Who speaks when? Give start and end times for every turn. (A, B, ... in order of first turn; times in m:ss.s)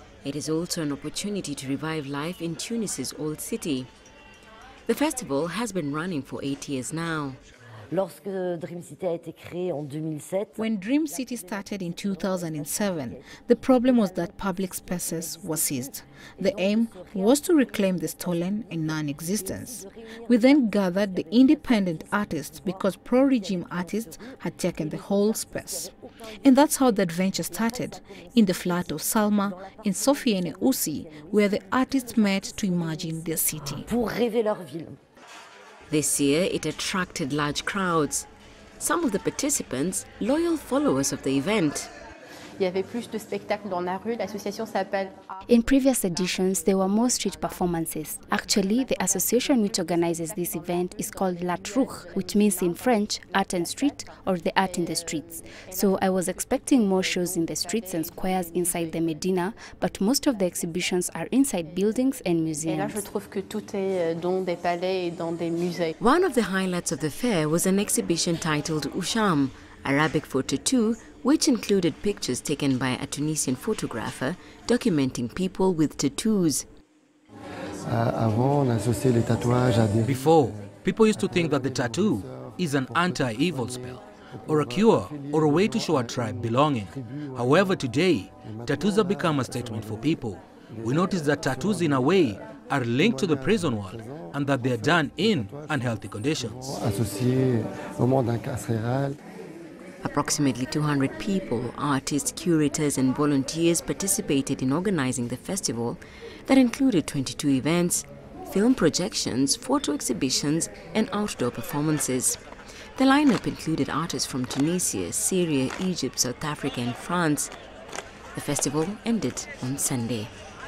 0:00.2-0:03.9 A
0:04.9-0:07.4 A
0:07.9-0:10.6 B
0:10.6-0:33.9 C
0:11.2-0:14.3 B
0:15.0-0:15.9 B
0:16.4-0:17.4 B
0:19.3-0:20.6 B
0:21.3-0:22.8 B
0:23.5-0:25.9 B
0:27.5-0:28.9 B
0:29.7-0:31.3 B
0:33.6-0:35.0 B
0:35.9-0:38.3 A
0:38.8-0:41.9 A
0:42.6-0:45.2 D
0:45.5-1:03.0 E
1:02.7-1:05.9 D
1:06.0-1:16.6 A
1:17.9-1:27.9 F
1:20.0-1:36.8 G
1:28.4-1:30.2 F
1:30.7-1:39.2 F
1:40.0-1:52.4 A
1:53.0-1:57.5 A
1:58.3-2:00.3 A